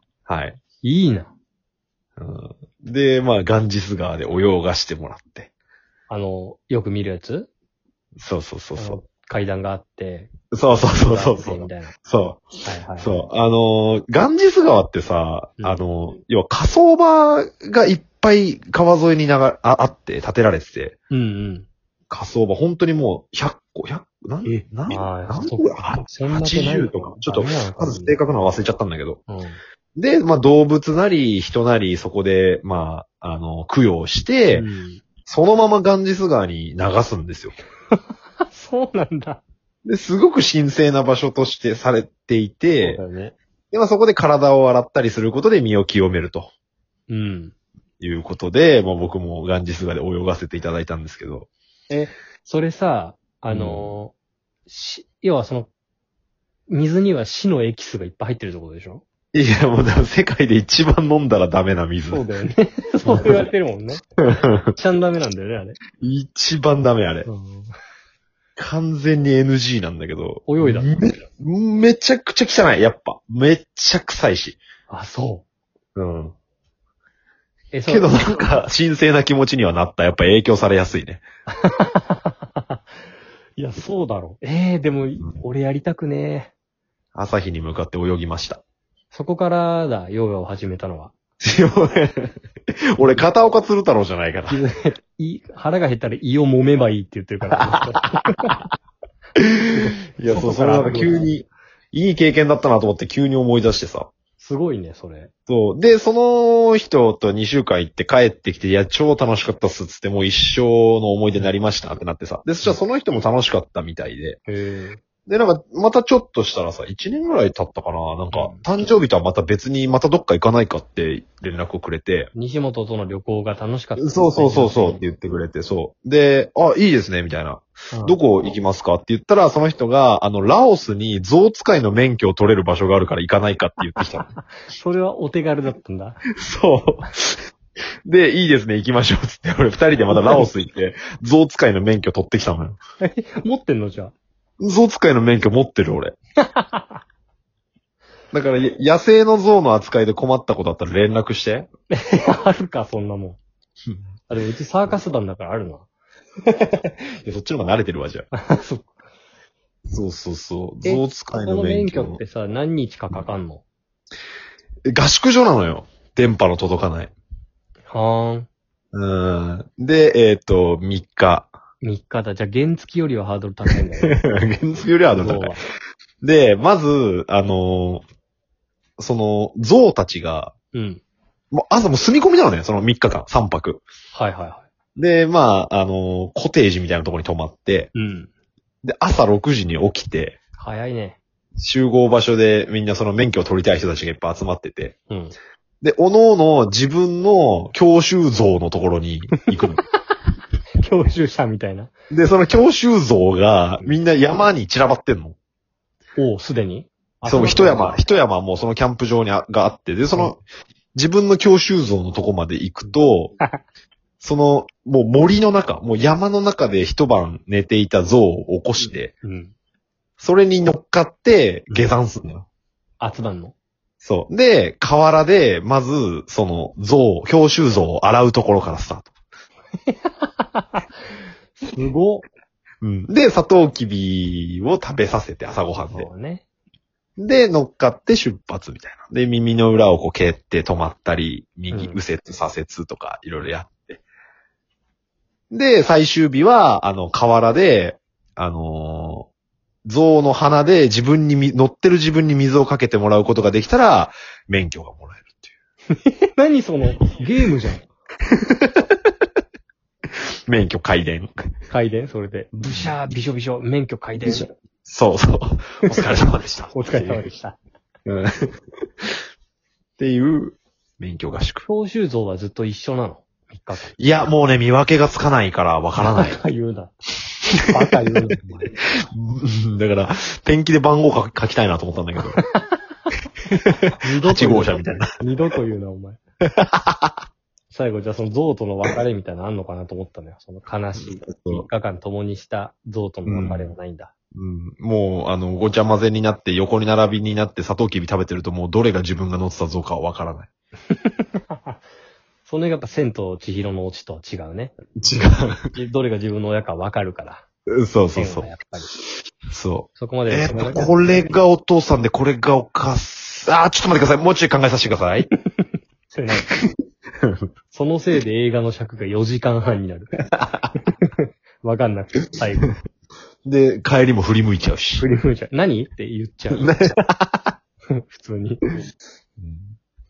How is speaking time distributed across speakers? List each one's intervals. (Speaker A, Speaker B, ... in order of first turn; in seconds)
Speaker A: 0.3-0.6, 2.2-5.5, 8.2-9.0, 10.5-21.0, 22.1-29.2, 30.0-34.7, 35.2-37.5, 39.9-43.0, 43.7-46.5, 48.0-51.5, 53.5-54.0, 59.3-62.3, 63.0-63.5, 64.2-64.7, 66.0-67.3, 68.6-74.6, 76.0-76.3, 77.9-81.2, 87.2-88.6, 91.4-92.3, 92.9-94.6, 97.5-98.1, 99.4-104.1, 105.5-114.4, 115.3-122.3, 124.0-134.3, 136.4-137.4, 138.1-142.8, 144.6-146.2, 148.3-151.7, 156.5-158.3, 159.9-162.2, 164.9-167.1, 168.9-171.5, 174.0-175.6, 176.2-178.1, 179.0-180.5, 181.5-183.8, 185.0-187.9, 188.8-190.4, 191.6-195.0, 195.8-199.8, 202.1-205.4, 207.3-210.4, 210.9-213.3, 214.2-219.1, 220.2-222.5, 224.0-229.1, 232.8-236.1, 237.2-244.0, 245.5-249.3, 249.8-255.5, 258.3-259.0, 260.5-261.3, 262.7-262.9, 264.2-267.3, 268.1-268.5, 270.0-271.7, 274.0-276.4, 279.1-282.4, 283.5-285.1, 286.4-287.1, 291.0-291.7, 293.3-293.7, 294.4-300.5, 305.0-305.7, 307.7-308.5, 309.5-315.3, 316.4-317.4, 320.3-320.7, 323.4-325.1, 326.5-327.5, 329.4-329.8
Speaker B: 0.8-1.3, 6.1-7.5, 8.8-11.9, 12.7-13.2, 21.1-21.7, 24.4-28.2, 29.3-29.6, 34.5-35.0, 38.5-39.4, 42.8-43.4, 47.1-47.5, 51.9-54.1, 54.7-55.7, 56.7-59.0, 62.1-64.0, 64.7-65.8, 67.3-67.7, 70.5-70.9, 74.9-75.4, 77.7-78.6, 81.6-82.8, 83.6-86.5, 89.1-91.1, 93.0-93.3, 94.5-98.5, 99.7-101.2, 104.4-105.3, 114.5-115.0, 118.3-118.6, 122.3-125.0, 127.9-128.2, 134.0-136.2, 140.1-140.5, 143.0-144.1, 146.4-147.0, 151.9-153.4, 154.3-155.9, 158.3-158.9, 160.8-163.6, 167.9-168.5, 171.8-174.2, 175.1-175.6, 180.7-181.0, 184.1-184.7, 187.9-188.3, 190.6-191.2, 195.1-195.3, 200.8-201.9, 206.2-208.0, 219.2-219.5, 223.0-223.5, 229.9-230.8, 231.6-232.2, 235.9-236.4, 241.7-242.0, 255.9-257.9, 261.7-264.5, 265.9-266.2, 266.7-267.6, 271.7-273.9, 276.0-277.0, 277.6-278.7, 282.4-282.7, 284.0-286.2, 287.7-294.1, 300.9-301.8, 302.5-304.8, 305.7-307.4, 308.1-308.9, 310.0-311.3, 315.6-316.5, 317.7-320.1, 320.9-322.7, 325.0-326.8, 328.0-328.6